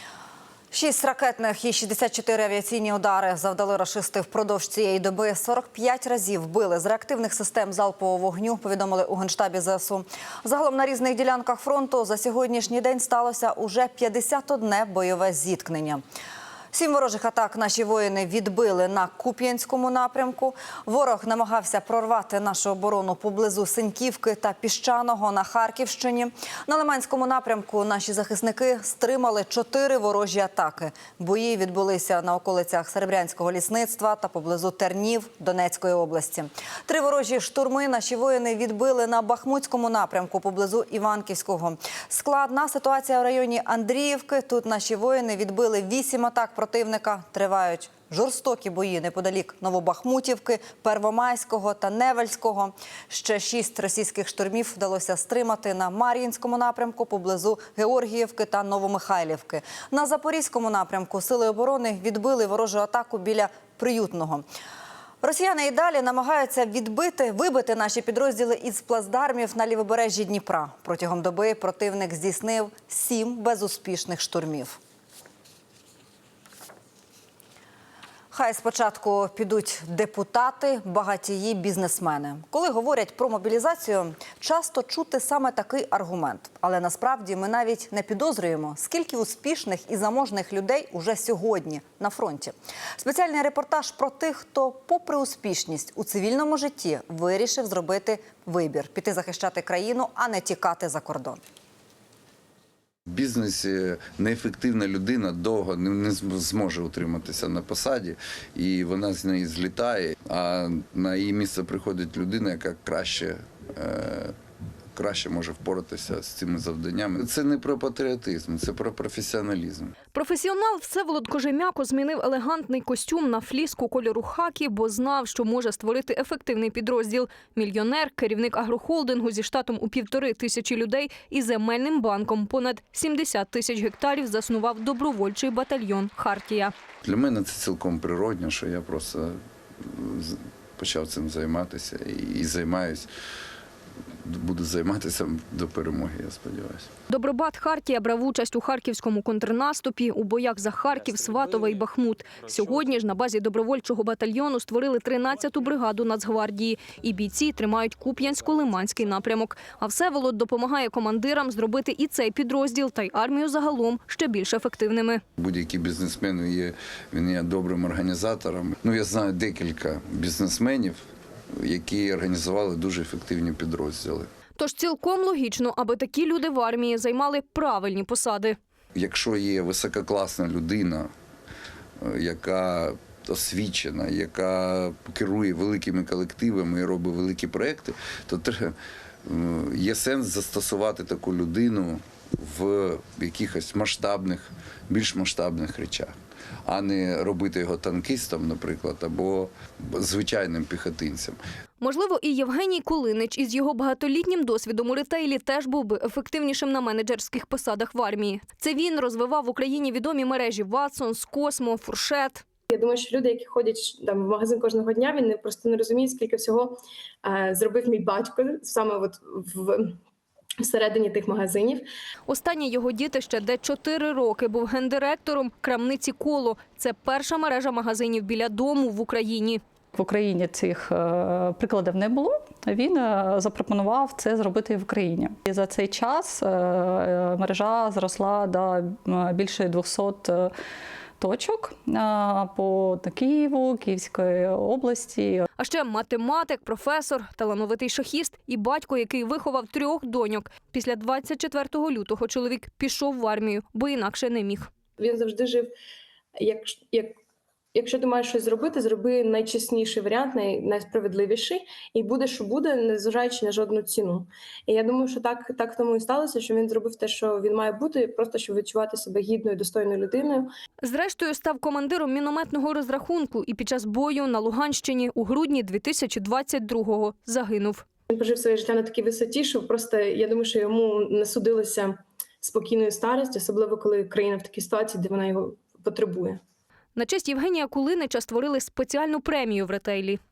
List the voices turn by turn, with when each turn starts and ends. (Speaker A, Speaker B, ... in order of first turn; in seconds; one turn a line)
Speaker A: 0.7-16.0
Speaker A: 16.7-64.5
Speaker A: 65.2-74.8
Speaker A: 78.3-101.4
Speaker B: 103.1-114.3
Speaker B: 115.0-119.9
Speaker C: 120.1-136.7
Speaker B: 137.1-139.3
Speaker B: 140.0-143.1
Speaker B: 144.3-146.9
Speaker C: 147.1-165.2
Speaker B: 165.4-171.0
Speaker B: 171.6-174.3
Speaker C: 174.6-178.6
Speaker B: 179.0-181.1
Speaker B: 182.0-188.7
Speaker B: 189.2-196.1
Speaker B: 196.7-201.4
Speaker C: 201.8-212.4
Speaker D: 212.7-220.0
Speaker D: 220.6-221.9
Speaker C: 222.3-229.6
Speaker E: 229.9-240.5
Speaker E: 241.2-245.5
Speaker C: 245.6-254.7
Speaker D: 255.0-255.7
Speaker D: 256.4-257.2
Speaker D: 257.7-270.5
Speaker C: 270.8-277.9
Speaker D: 278.1-286.4
Speaker C: 287.0-290.2